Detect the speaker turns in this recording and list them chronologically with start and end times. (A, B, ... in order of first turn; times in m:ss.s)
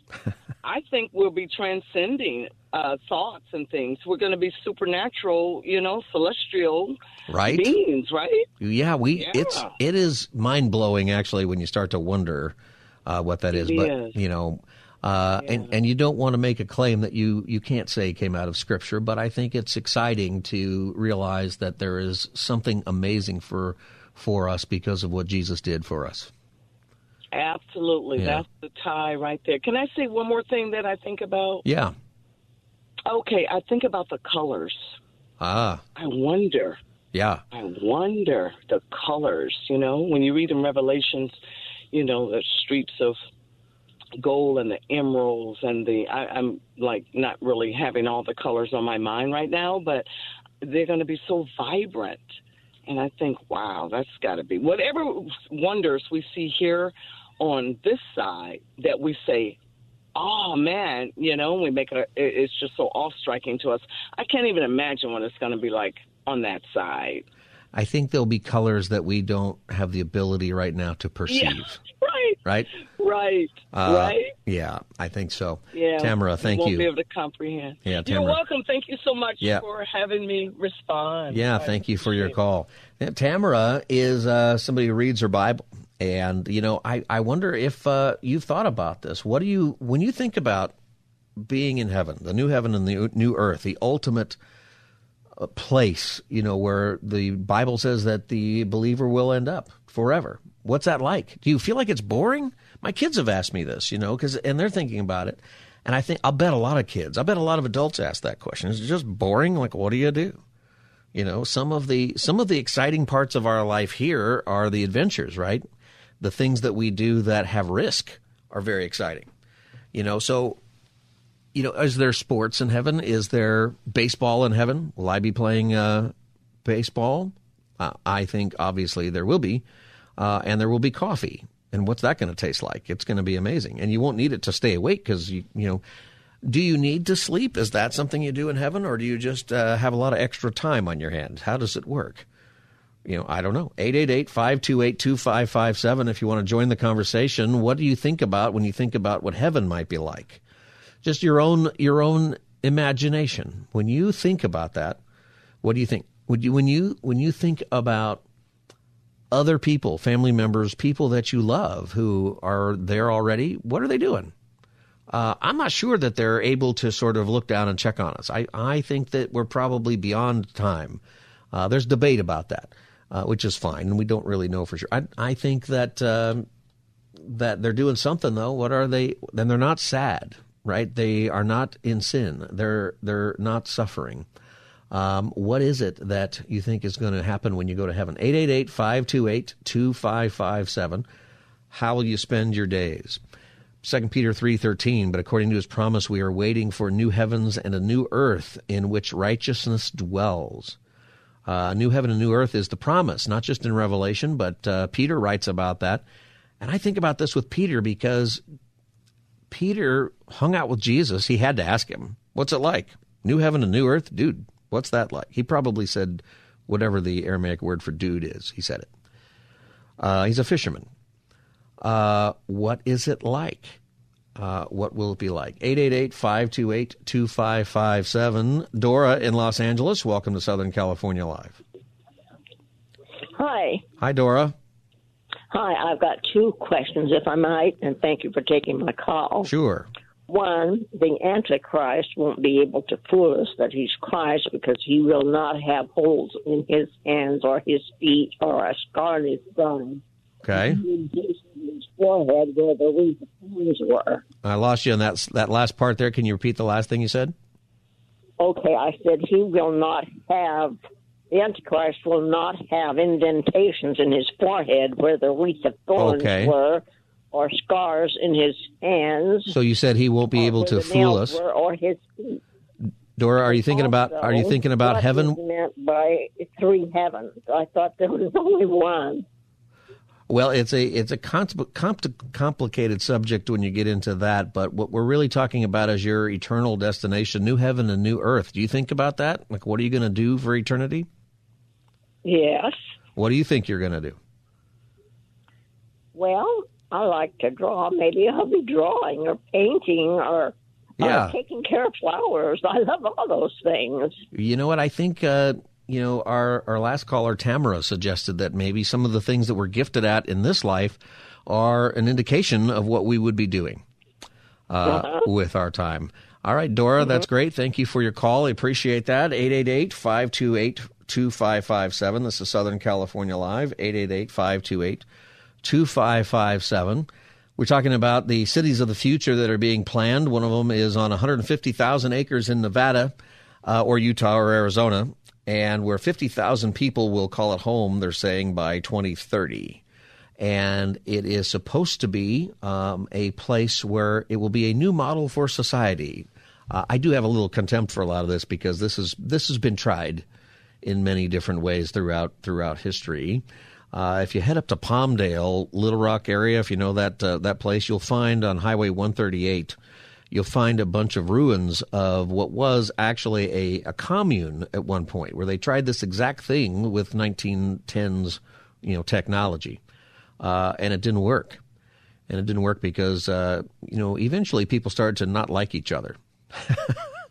0:00.6-0:08.5 A
0:07.3-0:07.7 B
0:08.6-0:26.3 B
0:09.2-0:09.7 A
0:13.5-0:14.2 A
0:15.4-0:15.7 A
0:27.3-0:31.6 A
0:28.2-0:28.4 B
0:31.6-0:31.9 B
0:33.0-0:35.0 A
0:35.4-0:35.8 B
0:36.0-0:36.8 A
0:37.1-0:37.4 B
0:37.5-0:41.4 A
0:41.9-0:43.2 A
0:44.2-0:50.1 A
0:50.6-0:59.6 A
1:00.1-1:07.2 A
1:07.7-1:11.8 B
1:11.3-1:14.3 A
1:12.4-1:12.7 B
1:13.7-1:16.9 B
1:15.7-1:22.3 A
1:17.8-1:18.4 B
1:21.3-1:30.7 B
1:31.4-1:34.4 B
1:35.4-1:50.4 B
1:51.1-1:55.6 B
1:56.2-1:59.3 B
1:59.9-2:00.6 B
2:01.5-2:09.6 B
2:10.2-2:15.8 B
2:16.4-2:22.2 B
2:23.0-2:30.4 B
2:31.0-2:35.0 B
2:35.6-2:38.2 B
2:39.3-2:44.3 B
2:45.1-2:56.4 B
2:57.2-3:04.2 B
3:04.9-3:11.0 B
3:11.7-3:13.2 B
3:13.8-3:20.8 B
3:21.4-3:26.0 B
3:26.6-3:28.4 B
3:29.5-3:38.9 B
3:40.0-3:40.9 B
3:41.8-3:43.8 B
3:44.4-3:51.6 B
3:53.3-3:53.8 C
3:54.0-3:54.5 B
3:55.5-3:59.5 C
3:59.4-3:59.9 B
4:00.3-4:10.0 C
4:10.4-4:10.8 B
4:10.5-4:14.2 C
4:14.4-4:17.3 B
4:18.4-4:20.8 C
4:21.3-4:29.5 C
4:26.0-4:26.5 B
4:29.5-4:31.4 B
4:30.4-4:32.4 C
4:33.2-4:35.4 B
4:33.4-4:39.2 C
4:40.3-4:51.1 B
4:52.2-4:52.8 C
4:53.2-4:54.2 B
4:56.1-5:04.2 C
5:01.0-5:01.4 B
5:04.3-5:13.8 B
5:14.7-5:25.0 B
5:14.9-5:15.2 C
5:25.6-5:39.8 B
5:40.4-5:50.2 B
5:50.8-5:59.8 B
6:00.3-6:09.8 B
6:10.4-6:11.6 B
6:12.3-6:16.9 B